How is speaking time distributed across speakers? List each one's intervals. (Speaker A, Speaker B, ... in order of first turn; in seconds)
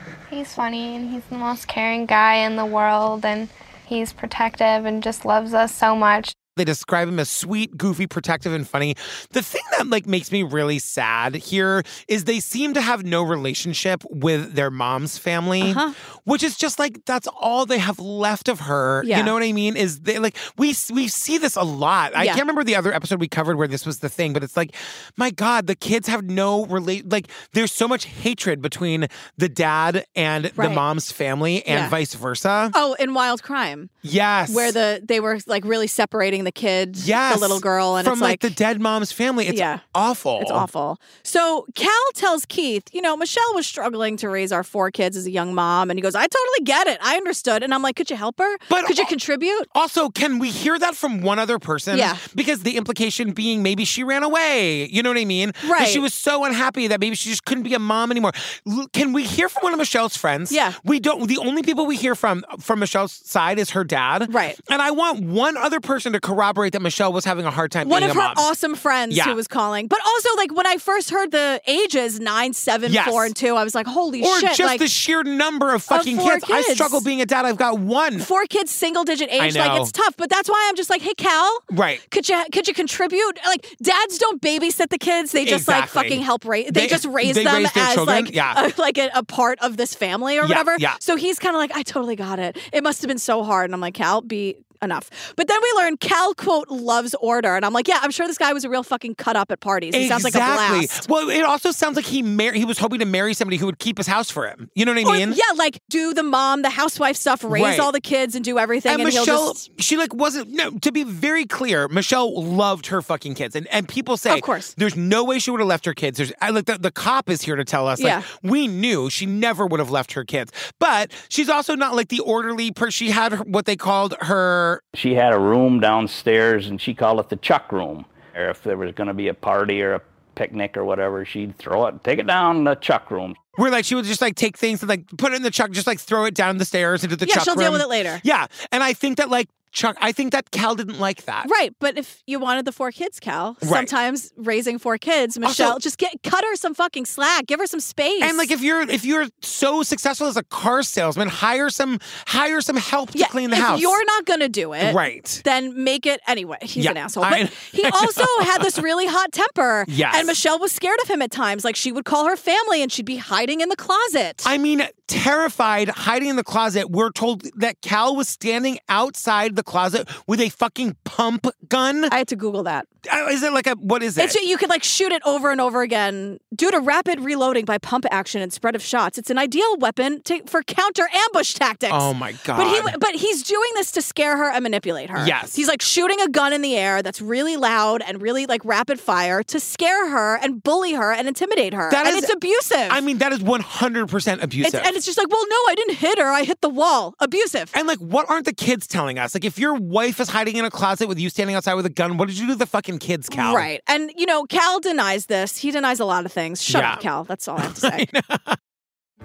Speaker A: 0.3-6.3
Speaker B: 6.6-32.8, 34.0-34.8, 37.0-40.7, 48.7-49.1, 49.7-68.5, 69.1-69.4, 72.9-73.3, 74.2-78.3, 79.4-79.9, 81.7-82.0, 85.4-88.6, 90.4-91.0, 99.9-105.4, 107.5-107.9, 108.9-124.8, 133.6-141.5, 143.6-143.9, 145.4-145.8, 148.2-154.0, 154.8-155.4, 156.8-158.8, 159.9-160.4, 164.4-172.1, 173.1-174.4, 181.9-183.0, 185.2-185.6, 191.9-192.3, 192.9-194.9, 197.7-203.7, 206.7-207.0, 207.6-208.6
Speaker C: 15.6-15.9, 19.0-19.3, 30.6-30.8, 31.7-31.9, 32.7-33.9, 34.5-38.5, 39.5-39.8, 40.4-49.7, 51.9-52.2, 55.6-56.0, 60.5-60.8, 64.3-64.6, 67.8-74.9, 75.9-77.0, 78.2-101.0, 105.0-109.6, 114.3-114.7, 118.0-118.2, 137.2-138.2, 141.4-148.5, 153.2-164.5, 172.1-172.9, 174.2-193.0, 194.6-197.7, 203.3-208.0
Speaker D: 125.0-133.4